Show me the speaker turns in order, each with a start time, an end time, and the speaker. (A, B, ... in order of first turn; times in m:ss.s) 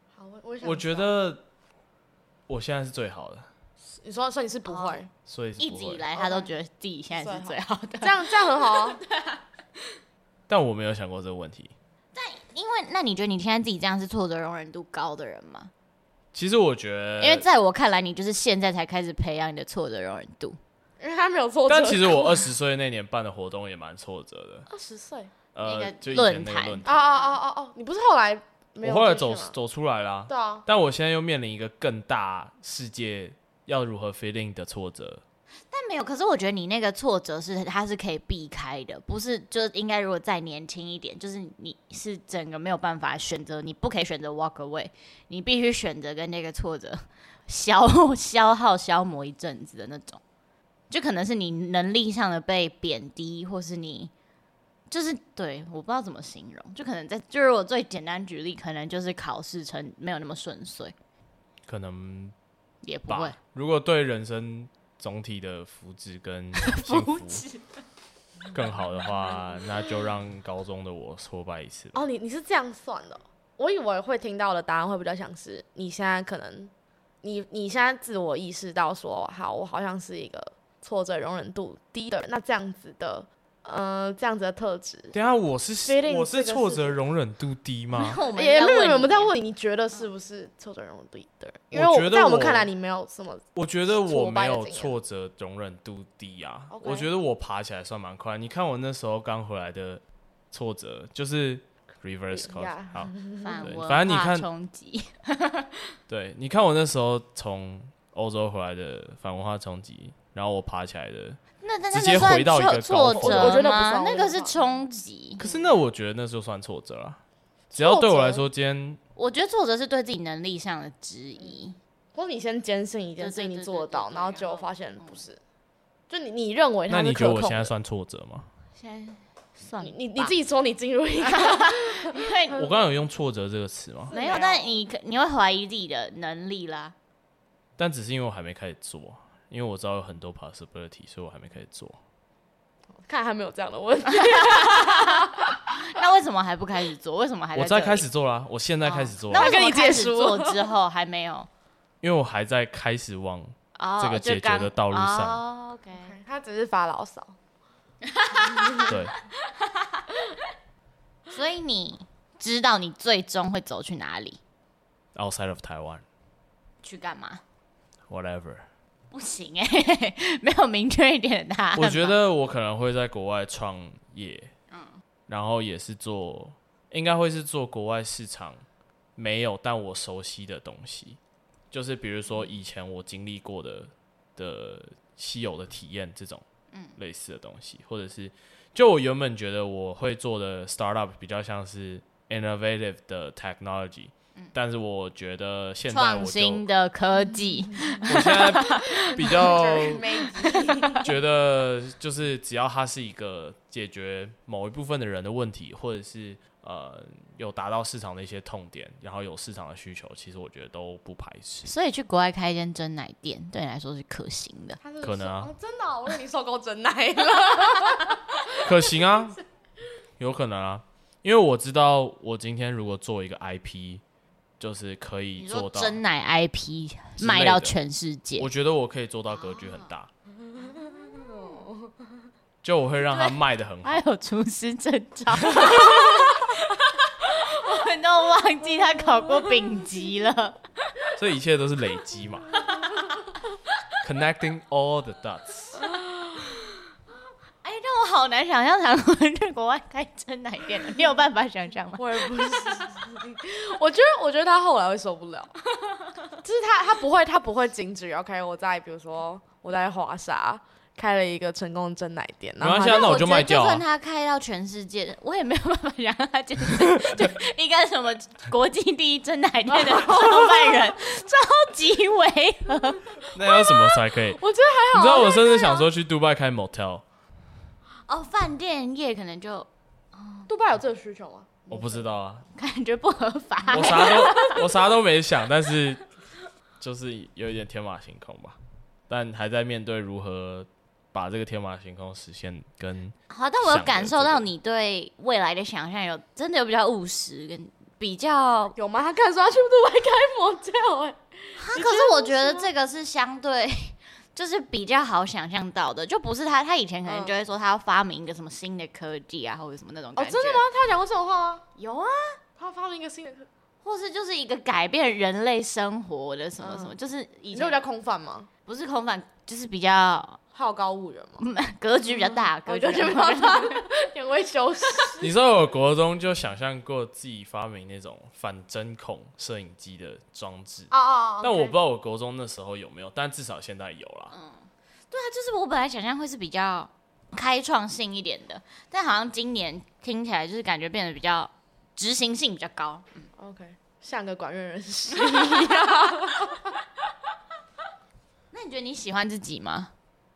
0:00.2-0:01.1 A
0:00.6-0:01.4 B
0:02.5-0:03.5 B
0:03.9-0:05.1 A
0:04.7-0:05.0 C
0:05.3-0:06.0 B
0:05.6-0:09.4 C
0:06.2-0:06.5 A
0:07.1-0:09.0 A
0:10.5-0:11.7 B
0:12.2-0:15.7 C
0:16.3-0:17.5 B
0:17.2-0:20.6 C
0:21.0-0:22.5 A
0:21.7-0:24.7 B
0:24.7-0:25.3 A
0:25.6-0:27.0 B
0:25.6-0:27.3 C
0:26.8-0:29.6 A
0:28.8-0:35.2 B
0:30.3-0:30.6 A
0:35.7-0:50.2 C
0:50.9-0:54.1 C
0:54.9-1:01.0 C
1:01.7-1:02.4 B
1:02.8-1:03.4 C
1:03.1-1:07.4 B
1:06.6-1:07.8 C
1:08.5-1:12.0 B
1:11.9-1:16.7 A
1:17.2-1:25.2 A
1:25.1-1:28.2 B
1:25.8-1:27.0 A
1:27.9-1:29.3 C
1:28.2-1:35.0 A
1:31.7-1:32.7 B
1:33.6-1:44.5 B
1:36.7-1:37.1 A
1:42.3-1:43.6 A
1:43.4-1:46.0 C
1:46.1-1:51.4 B
1:51.6-1:55.4 C
1:51.9-1:53.7 B
1:53.2-1:54.6 A
1:55.4-1:57.2 B
1:57.7-1:58.5 A
1:57.7-1:59.0 B
1:59.2-2:01.8 C
2:02.2-2:05.4 A
2:03.2-2:05.2 C
2:06.1-2:07.7 A
2:06.9-2:08.5 B
2:08.8-2:10.4 C
2:09.8-2:12.3 A
2:11.2-2:12.6 C
2:12.5-2:14.2 B
2:14.1-2:14.7 A
2:14.1-2:17.0 C
2:17.8-2:22.0 B
2:23.0-2:25.8 A
2:24.1-2:28.0 C
2:27.6-2:29.6 B
2:28.8-2:31.5 C
2:29.3-2:30.7 A
2:32.0-2:35.4 B
2:33.8-2:36.2 C
2:36.0-2:37.4 A
2:38.0-2:39.0 C
2:38.6-2:38.9 A
2:38.9-2:39.1 B
2:39.7-2:40.3 C
2:41.3-2:44.4 C
2:45.2-2:46.0 B
2:46.8-2:47.4 C
2:48.1-2:48.7 B
2:49.1-2:52.2 C
2:51.8-2:54.5 B
2:54.7-2:55.0 C
2:55.3-2:58.6 B
2:59.2-3:01.2 B
3:01.7-3:06.4 B
3:07.0-3:16.6 B
3:15.9-3:21.0 C
3:18.0-3:20.1 B
3:18.8-3:21.1 A
3:21.0-3:31.7 B
3:31.6-3:34.8 C
3:34.8-3:38.9 A
3:35.0-3:35.5 B
3:38.6-3:39.4 B
3:40.2-3:44.0 B
3:44.6-3:46.0 B
3:45.4-3:48.5 C
3:47.2-3:47.8 B
3:48.4-3:50.1 B
3:49.4-3:49.9 C
3:50.4-3:52.0 A
3:50.8-3:51.6 C
3:52.6-3:54.0 B
3:53.1-4:00.6 C
4:01.1-4:02.6 B
4:04.0-4:05.9 B
4:05.8-4:06.7 A
4:07.6-4:12.7 C
4:12.0-4:15.5 A
4:16.3-4:23.4 A
4:22.6-4:23.8 B
4:22.9-4:33.2 C
4:29.7-4:30.9 A
4:33.3-4:34.4 B
4:33.4-4:35.9 A
4:34.9-4:37.0 B
4:38.1-4:40.5 C
4:40.5-4:42.1 A
4:41.7-4:42.5 B
4:42.6-4:44.6 C
4:43.7-4:46.0 B
4:43.9-4:44.6 A
4:46.8-4:48.6 B
4:49.1-4:54.5 B
4:53.3-4:58.8 C
4:58.8-5:02.7 A
5:01.6-5:10.6 C
5:07.1-5:07.4 A
5:10.2-5:11.6 A
5:11.8-5:12.4 C
5:12.6-5:13.5 A
5:13.8-5:17.8 C
5:16.6-5:17.0 A
5:17.5-5:18.5 A
5:18.7-5:20.4 C
5:20.5-5:21.4 A
5:21.4-5:23.9 C
5:22.7-5:25.3 A
5:25.2-5:34.3 B
5:30.9-5:31.8 A
5:34.3-5:43.2 C
5:43.4-5:46.7 A
5:45.2-5:46.3 C
5:48.5-5:49.9 C